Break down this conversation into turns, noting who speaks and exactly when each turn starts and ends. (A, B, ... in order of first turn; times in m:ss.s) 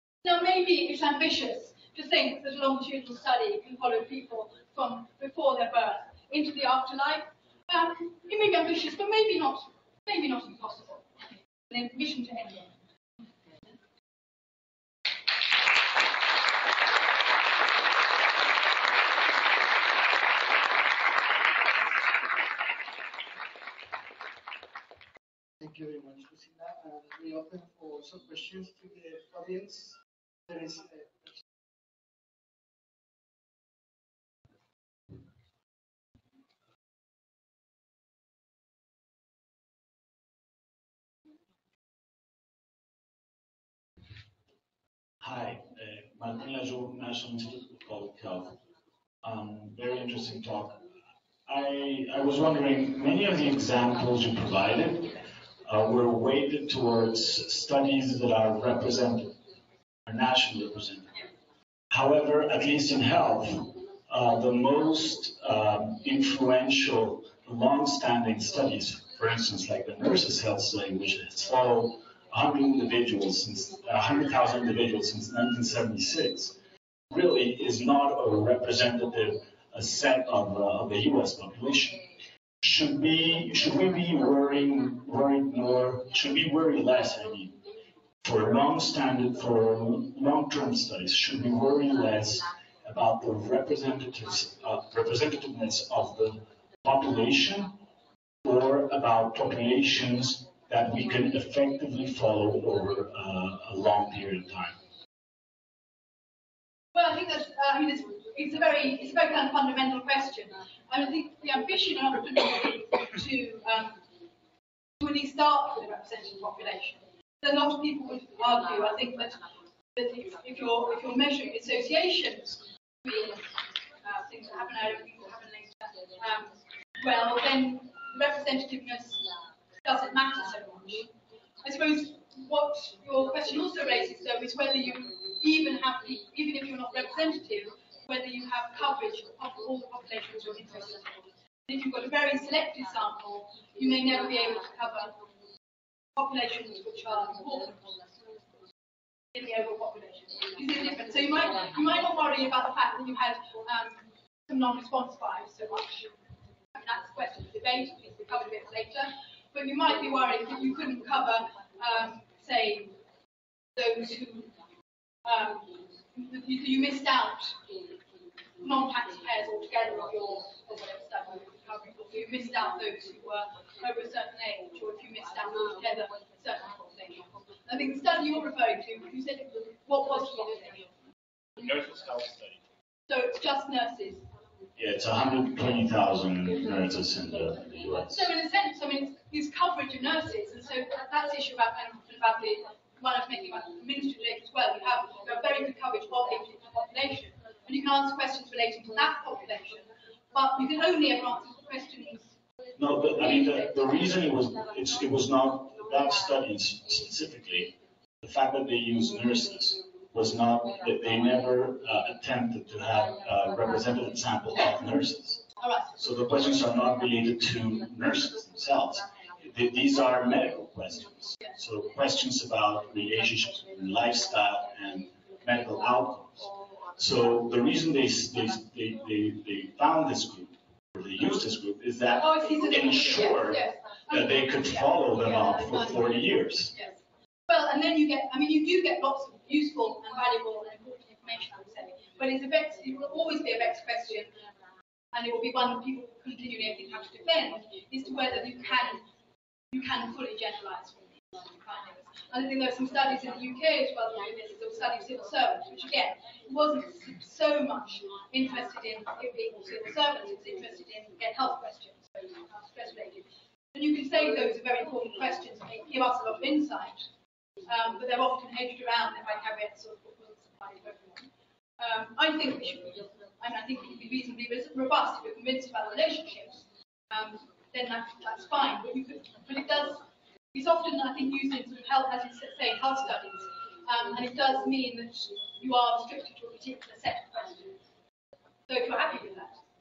0:00.2-0:12.8 A
0:25.6-0:30.0 B
0:30.5-0:31.4 B
0:45.2-0:48.6 C
0:49.2-0:50.8 C
0:51.5-0:59.4 C
1:00.1-1:01.2 C
1:01.9-1:16.6 C
1:17.1-1:22.0 C
1:22.6-1:27.6 C
1:28.2-1:37.8 C
1:38.4-1:44.8 C
1:46.9-1:54.0 A
1:55.0-1:59.4 A
2:00.0-2:03.5 A
2:04.0-2:09.3 A
2:09.8-2:25.2 A
2:26.2-2:28.0 A
2:29.3-2:36.1 A
2:36.8-2:43.0 A
2:43.8-2:44.5 A
2:45.2-2:47.6 A
2:48.6-3:00.9 A
3:01.6-3:02.6 C
3:03.1-3:04.2 A
3:04.8-3:08.3 C
3:07.9-3:22.3 A
3:22.8-3:35.4 C
3:23.2-3:23.7 A
3:35.6-3:36.0 A
3:36.0-3:56.7 C
3:52.1-4:04.4 A
4:05.1-4:09.0 A
4:09.7-4:27.1 A
4:27.7-4:47.8 A
4:48.7-4:49.6 A